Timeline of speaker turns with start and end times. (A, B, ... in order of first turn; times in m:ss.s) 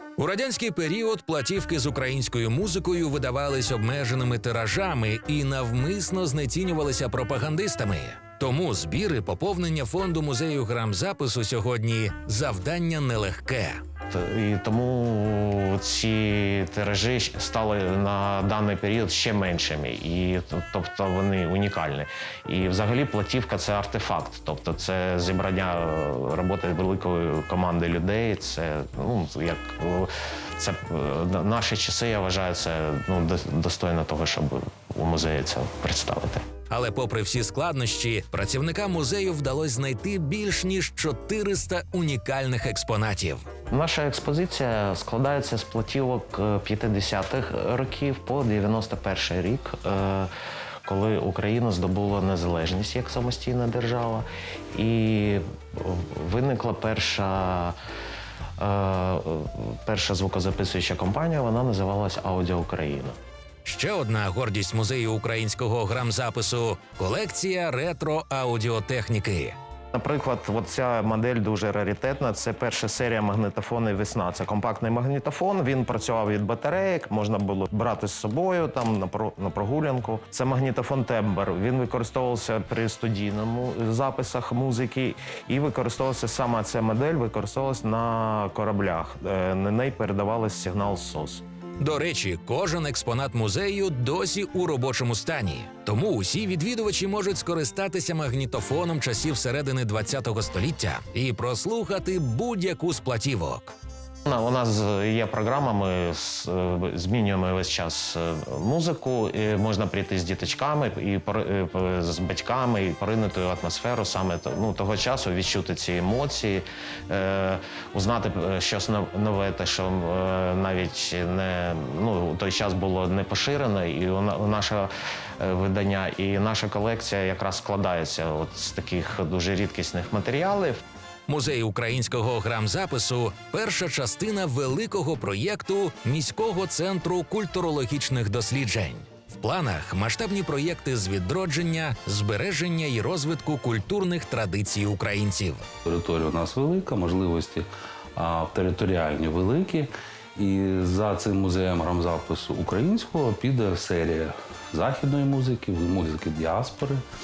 0:00.2-0:13.8 A
0:14.1-0:36.5 B
0:36.7-0:43.5 A
0:43.7-0:50.3 B
0:50.8-0:57.8 B
0:58.6-1:03.2 B
1:03.6-1:09.6 A
1:09.9-1:31.4 B
1:31.8-1:43.7 A
1:44.3-2:10.8 B
2:11.3-2:25.7 A
2:25.8-2:37.0 C